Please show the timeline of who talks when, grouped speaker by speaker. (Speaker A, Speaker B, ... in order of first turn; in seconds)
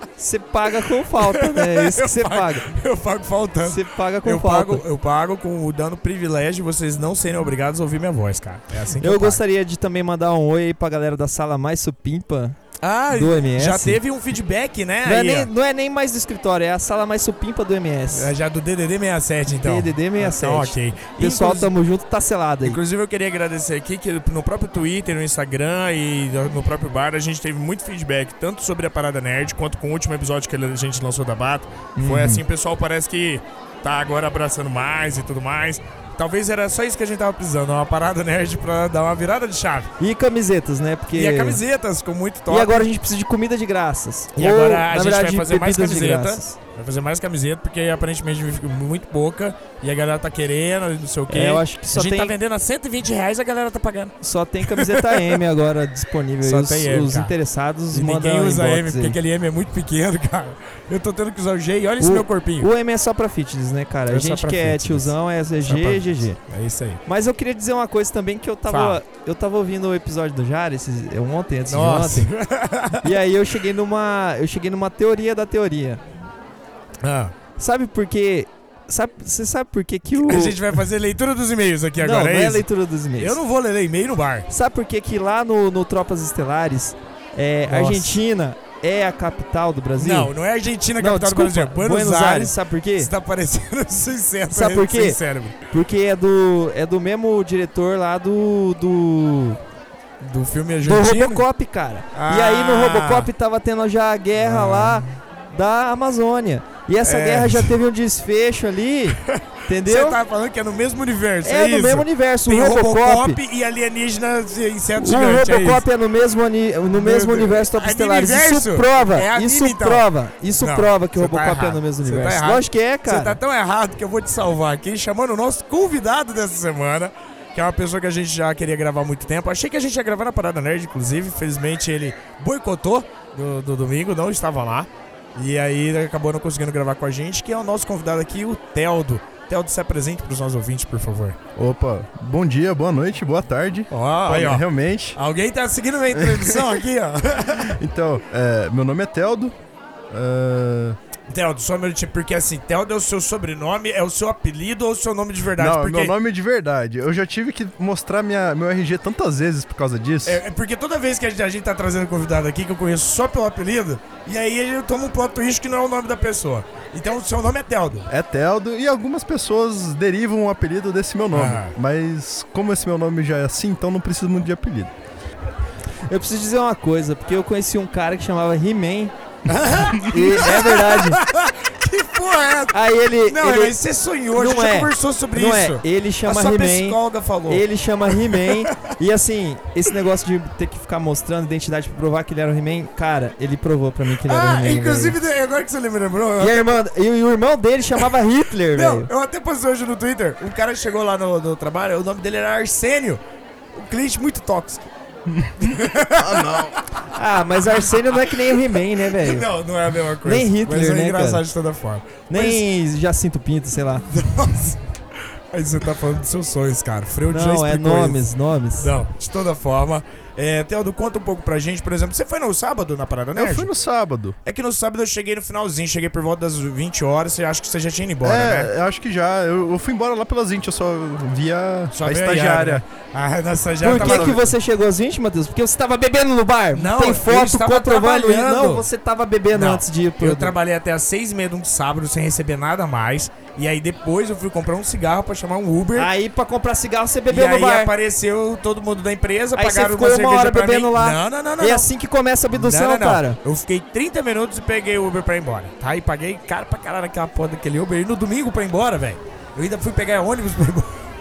Speaker A: 0.2-2.8, 3.6-4.8, 9.0-12.6, 13.1-14.0, 15.0-18.3, 19.5-22.8, 32.0-32.4, 40.0-41.6, 42.5-46.5, 51.3-52.3, 54.2-59.2, 62.0-66.4, 67.1-72.3, 73.0-76.0, 77.6-80.7, 82.0-83.4, 84.5-90.3, 91.0-93.1, 94.5-99.6, 100.8-110.2, 111.4-113.4, 115.0-123.4, 176.1-179.1, 179.9-181.2, 182.7-183.8, 184.3-195.2, 196.4-199.1, 207.1-209.5, 210.2-211.4, 212.3-214.1, 217.3-218.9, 233.8-240.5, 245.9-247.9, 249.6-253.4
Speaker B: 1.1-9.4, 12.8-15.5, 18.1-21.7, 22.6-39.9, 41.1-42.9, 44.4-55.4, 56.4-57.3, 57.9-62.7, 64.1-67.0, 68.7-69.0, 71.7-73.1, 77.0-77.3, 80.2-82.7, 83.2-84.5, 87.7-88.2, 90.0-95.5, 100.2-101.4, 102.1-103.3, 104.4-105.1, 107.0-107.7, 109.2-115.8, 116.9-120.1, 120.6-141.4, 143.9-147.8, 151.3-156.2, 160.3-168.1, 171.3-171.8, 179.5-188.8, 194.1-196.7, 198.7-203.2, 203.7-204.9, 205.6-207.0, 207.6-212.6, 214.1-214.8, 215.5-218.2, 218.8-223.7, 224.4-228.7, 231.9-234.5, 236.7-238.9, 239.5-246.1, 247.3-251.9, 252.5-261.0
Speaker C: 141.6-145.2, 146.1-146.8, 147.6-149.5, 150.1-151.0, 155.6-160.4, 168.1-174.9, 205.3-206.8, 223.3-224.4, 228.2-232.8, 233.9-234.4